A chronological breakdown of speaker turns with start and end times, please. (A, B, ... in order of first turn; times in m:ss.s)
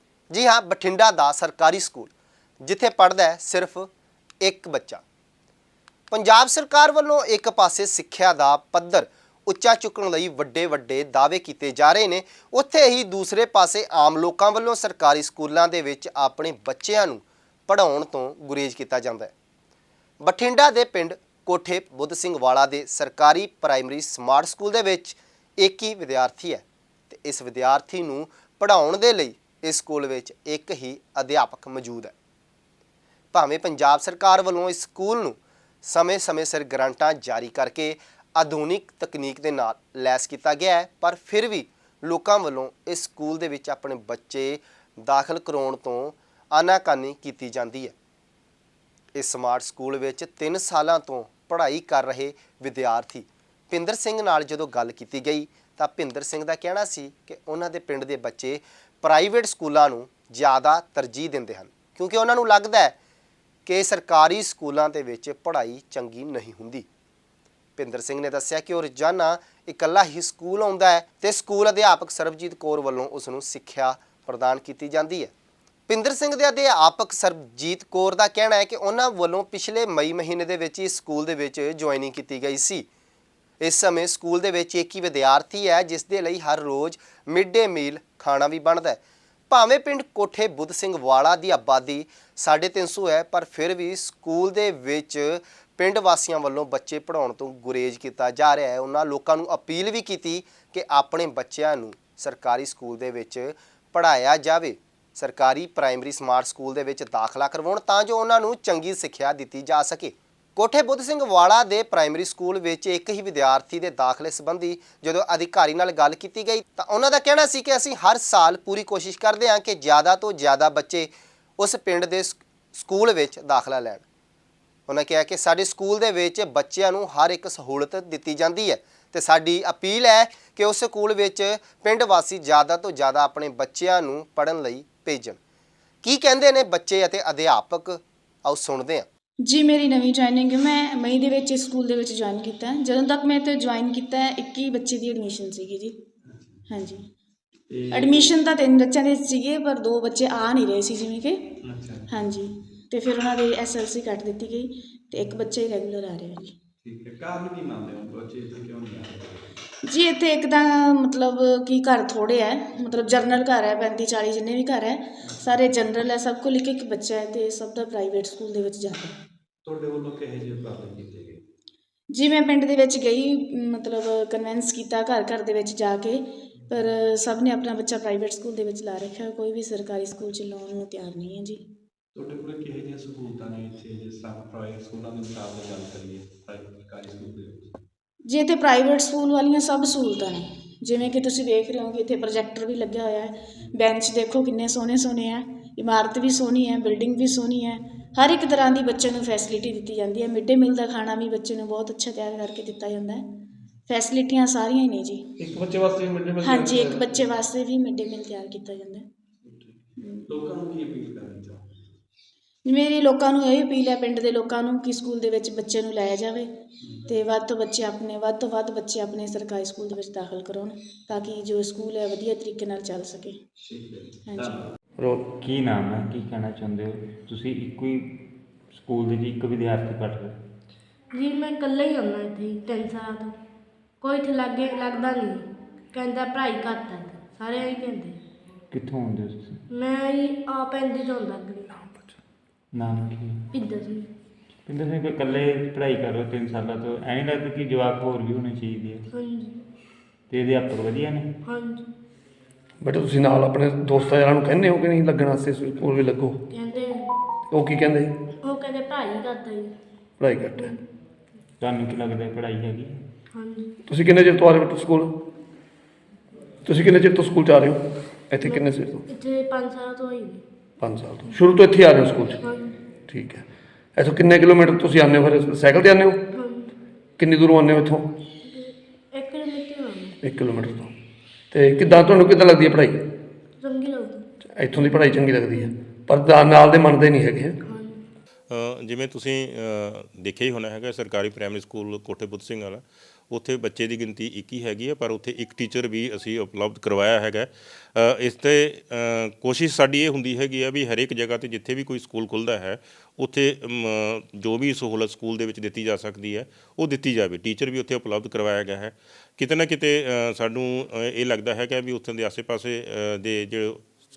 0:00.3-0:02.1 A
0:02.6-0:03.9 A
0:04.4-0:05.0 A
0:06.1-0:19.3 A
0:20.2-0:32.1 A
0:33.3-0:47.9 A
0:49.2-1:03.0 A
1:03.7-1:06.9 A
1:07.8-1:15.3 A
1:15.9-1:22.9 A
1:23.6-2:04.0 A
2:04.9-2:15.4 A
2:16.0-2:19.1 A
2:19.4-2:26.0 B
2:26.2-2:26.7 C
2:26.7-2:27.1 B
2:27.7-2:28.4 C
2:27.9-2:31.4 B
2:31.6-2:32.4 C
2:32.1-2:36.5 B
2:35.2-2:35.5 C
2:36.8-2:39.5 C
2:39.8-2:49.2 B
2:45.2-2:45.9 C
2:49.6-2:51.4 C
2:52.1-3:01.6 B
3:02.1-3:07.8 C
3:08.3-3:23.2 B
3:23.9-3:25.3 B
3:25.4-3:26.1 C
3:26.4-3:29.0 B
3:29.4-3:31.7 C
3:30.0-3:30.3 B
3:32.6-3:36.5 B
3:36.8-3:37.2 C
3:37.1-3:43.4 B
3:43.6-3:44.7 C
3:44.3-3:44.6 B
3:45.0-3:45.3 D
3:45.3-3:50.4 E
3:51.1-3:53.4 F
3:54.0-3:58.2 F
3:58.7-3:59.6 E
3:59.7-4:01.8 F
4:02.7-4:03.5 E
4:03.5-4:04.1 F
4:04.7-4:09.1 E
4:09.1-4:09.6 F
4:10.3-4:11.3 E
4:11.4-4:11.9 F
4:12.8-4:16.4 D
4:16.5-4:17.2 F
4:17.5-4:18.1 D
4:18.4-4:19.7 F
4:20.2-4:20.8 D
4:20.6-4:20.8 F
4:21.6-4:23.0 E
4:23.3-4:23.8 F
4:23.9-4:25.2 D
4:26.7-4:29.0 D
4:28.4-4:30.4 F
4:30.8-4:32.4 D
4:32.4-4:32.8 F
4:33.1-4:36.2 D
4:36.3-4:36.7 F
4:37.2-4:38.1 D
4:38.4-4:40.2 F
4:40.2-4:40.9 D
4:41.5-4:43.0 D
4:43.6-4:45.7 F
4:44.6-4:47.6 D
4:47.6-4:48.0 F
4:48.5-5:13.8 G